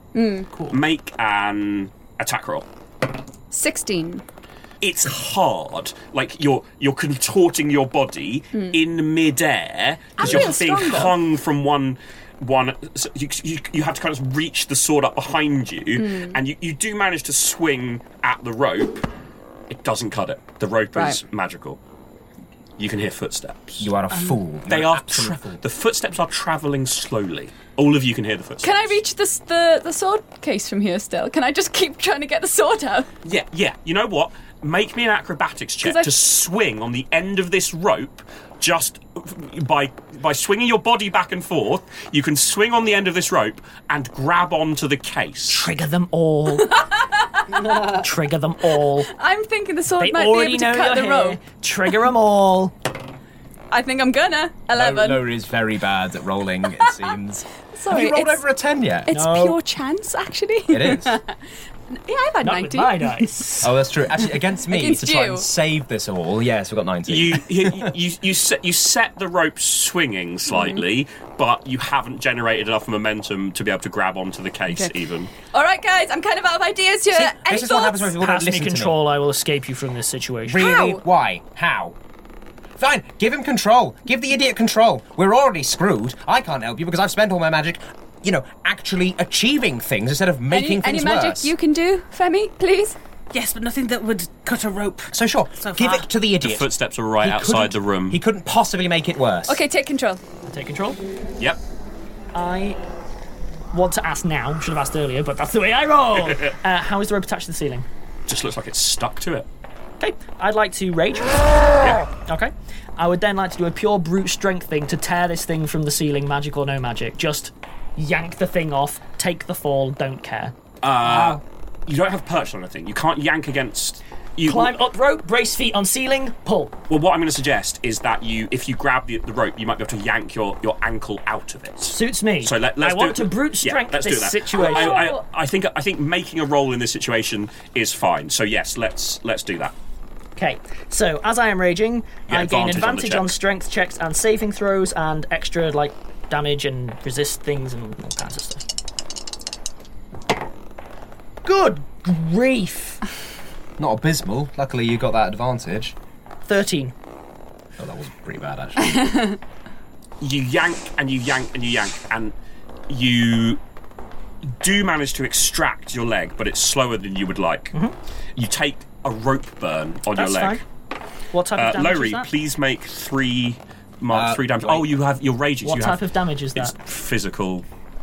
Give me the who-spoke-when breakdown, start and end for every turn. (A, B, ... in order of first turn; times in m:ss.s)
0:00.1-0:00.5 A
0:00.7-0:02.7 B
0:03.5-0:04.2 A
0:04.8-0:19.1 B
0:10.2-0:11.2 A
0:16.0-0:16.4 A
0:19.7-0:21.8 B
0:20.9-0:21.2 A
0:22.8-0:23.9 B
0:23.8-0:25.6 C
0:24.7-0:28.9 B
0:28.6-0:33.1 A
0:33.2-0:45.6 B
0:35.8-0:36.1 A
0:45.5-0:46.8 D
0:46.7-0:47.9 A
0:47.8-0:49.1 D
0:49.1-0:51.4 A
0:50.0-0:52.7 D
0:53.7-0:55.2 A
0:54.7-0:59.1 C
0:57.7-0:58.4 A
0:59.1-1:01.3 A
0:59.1-0:59.6 D
1:00.7-1:01.2 C
1:01.9-1:03.3 A
1:02.4-1:03.7 D
1:03.6-1:07.9 C
1:04.7-1:05.4 A
1:07.1-1:15.3 B
1:10.5-1:10.8 A
1:14.7-1:18.1 A
1:17.1-1:19.0 C
1:18.2-1:20.7 D
1:20.5-1:22.0 C
1:20.6-1:21.0 A
1:22.8-1:31.5 C
1:30.5-1:33.0 A
1:33.3-1:36.1 E
1:35.1-1:39.6 C
1:36.4-1:38.2 B
1:39.5-1:40.2 A
1:40.5-1:41.0 D
1:42.3-1:42.8 D
1:43.7-1:47.9 D
1:48.3-1:49.5 B
1:50.0-1:51.6 D
1:51.8-1:52.0 B
1:52.1-2:00.5 D
2:00.8-2:04.8 B
2:04.5-2:06.7 D
2:06.9-2:19.7 B
2:11.9-2:15.2 D
2:14.6-2:15.2 A
2:20.4-2:28.6 D
2:22.3-2:23.3 B
2:31.4-2:33.0 D
2:33.8-2:36.0 C
2:36.5-2:36.9 D
2:37.8-2:39.0 C
2:40.2-2:42.3 B
2:42.9-2:43.6 B
2:44.6-2:47.7 B
2:48.4-2:50.6 B
2:50.2-2:50.6 D
2:51.3-2:52.3 D
2:51.6-2:56.0 B
2:54.1-2:54.9 C
2:55.6-2:56.7 D
2:56.6-2:57.6 B